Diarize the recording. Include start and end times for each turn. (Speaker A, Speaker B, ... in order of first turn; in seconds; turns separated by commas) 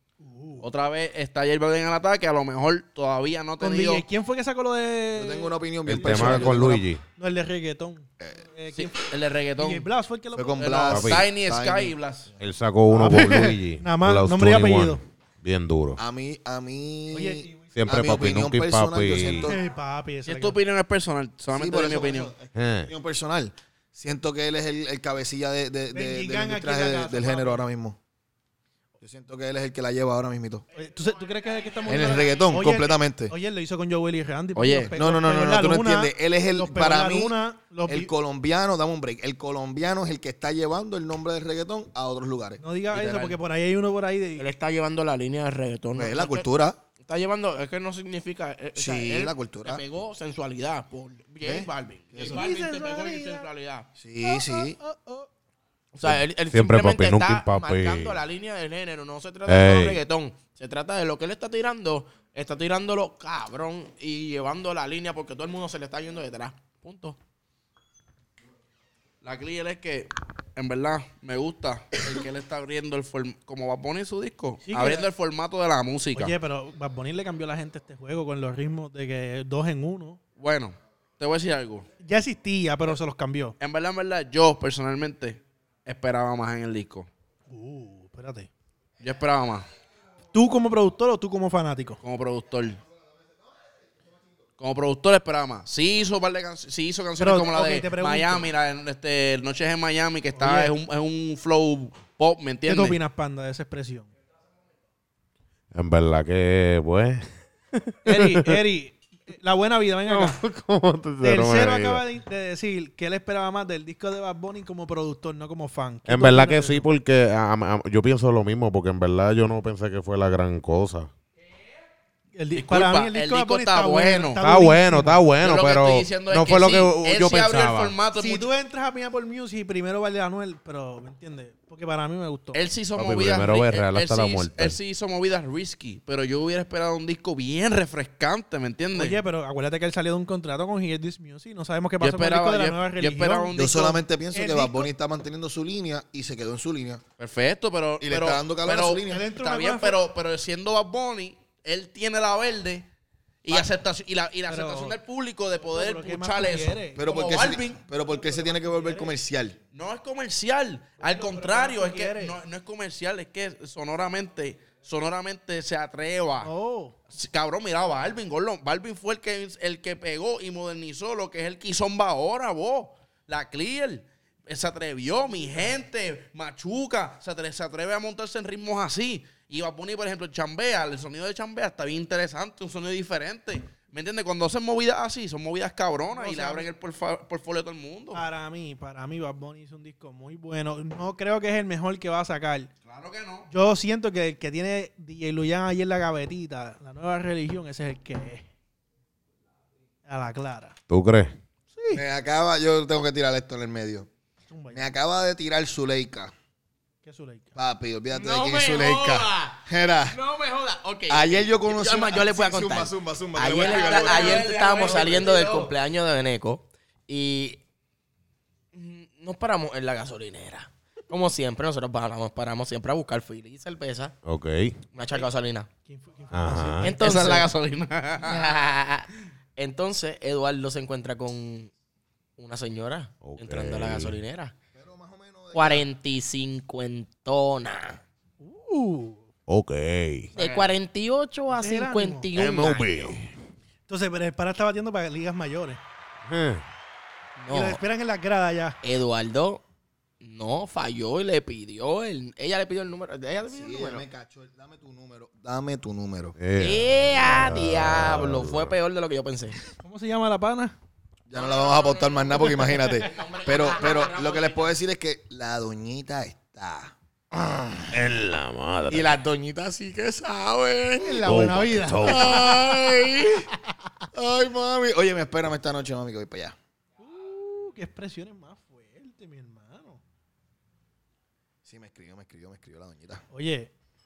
Speaker A: 0.2-0.7, Speaker B: 0.6-4.0, Speaker A: 3.6-11.0, Speaker C: 5.1-6.8, Speaker D: 5.9-7.0, Speaker B: 8.7-9.9, Speaker C: 10.3-11.9, Speaker B: 10.6-12.3, Speaker D: 10.9-11.3, Speaker D: 12.4-16.0, Speaker A: 12.9-15.0, Speaker C: 16.0-19.6, Speaker A: 17.1-17.7, Speaker D: 17.8-19.5, Speaker A: 19.2-20.6, Speaker B: 20.2-22.3, Speaker C: 21.5-28.0, Speaker D: 22.5-22.9, Speaker A: 25.9-27.6, Speaker C: 29.0-30.6, Speaker A: 30.7-38.1, Speaker C: 31.8-33.3, Speaker B: 34.5-34.9, Speaker C: 35.0-37.4, Speaker C: 37.9-42.6, Speaker A: 42.6-44.5, Speaker E: 43.0-43.3, Speaker E: 44.4-46.5, Speaker C: 45.9-46.8, Speaker E: 47.0-53.9, Speaker C: 48.7-49.8, Speaker C: 51.4-52.4, Speaker A: 52.2-53.5, Speaker C: 54.0-54.8, Speaker A: 54.2-55.3, Speaker E: 55.9-67.2, Speaker D: 56.0-58.2, Speaker D: 59.5-60.0, Speaker B: 69.2-76.3, Speaker A: 74.7-75.1, Speaker A: 76.1-80.2, Speaker B: 80.4-81.9, Speaker A: 82.0-83.5, Speaker B: 83.6-87.1, Speaker A: 87.5-88.5, Speaker B: 89.0-89.7, Speaker A: 90.3-92.0, Speaker B: 92.0-92.8, Speaker B: 94.6-103.0, Speaker A: 97.2-98.5, Speaker A: 100.3-100.7, Speaker A: 102.7-104.1, Speaker D: 105.7-107.3, Speaker D: 107.9-108.6, Speaker A: 108.0-110.4, Speaker D: 110.1-112.0, Speaker A: 111.2-116.8, Speaker D: 116.1-121.1, Speaker A: 122.3-125.3, Speaker B: 122.5-124.4, Speaker D: 124.4-127.9, Speaker B: 125.4-128.5, Speaker A: 128.2-132.6, Speaker B: 132.5-139.2, Speaker D: 132.9-134.8, Speaker A: 138.9-144.9, Speaker B: 142.0-144.0, Speaker C: 143.5-147.0, Speaker B: 147.2-152.9, Speaker C: 148.0-149.2, Speaker A: 149.1-150.0, Speaker B: 153.4-157.8, Speaker A: 154.5-155.0, Speaker A: 155.6-157.1, Speaker C: 156.9-159.6, Speaker A: 157.9-159.1, Speaker B: 159.7-166.5, Speaker A: 161.0-162.4, Speaker A: 166.4-166.9, Speaker B: 167.1-188.2, Speaker A: 186.1-186.7, Speaker A: 188.1-192.7, Speaker B: 192.8-193.5, Speaker A: 193.5-198.4, Speaker A: 200.1-200.7, Speaker D: 200.9-201.3, Speaker A: 201.7-202.0, Speaker C: 201.9-204.1, Speaker A: 204.5-204.9, Speaker C: 204.7-206.3, Speaker A: 207.0-207.5, Speaker C: 207.6-210.2, Speaker E: 208.1-217.6, Speaker C: 211.1-214.5, Speaker B: 213.6-215.7, Speaker E: 218.7-224.1, Speaker D: 224.2-224.8, Speaker E: 224.9-225.7, Speaker A: 225.8-227.0, Speaker D: 226.3-226.9, Speaker E: 226.8-227.5, Speaker B: 227.0-228.5, Speaker E: 228.2-231.7, Speaker E: 232.4-234.5, Speaker D: 233.2-234.2, Speaker C: 234.7-235.8, Speaker E: 235.5-238.0, Speaker A: 238.4-239.2, Speaker D: 239.5-240.3, Speaker B: 240.3-240.7, Speaker E: 240.3-243.1, Speaker A: 241.5-242.3, Speaker D: 242.3-243.3, Speaker A: 243.9-245.8, Speaker D: 246.2-246.6, Speaker E: 247.4-247.8, Speaker A: 247.5-248.8, Speaker E: 248.8-249.6, Speaker E: 250.2-254.0, Speaker C: 253.5-256.4, Speaker D: 256.4-258.8, Speaker E: 256.6-259.6, Speaker A: 259.8-260.8, Speaker C: 261.3-268.0, Speaker E: 261.3-264.7, Speaker D: 267.9-269.2, Speaker C: 268.9-271.2, Speaker A: 271.0-272.7, Speaker D: 271.2-272.8, Speaker C: 272.0-273.5, Speaker C: 274.1-276.6, Speaker A: 277.0-280.0, Speaker C: 281.6-283.2, Speaker A: 283.3-283.7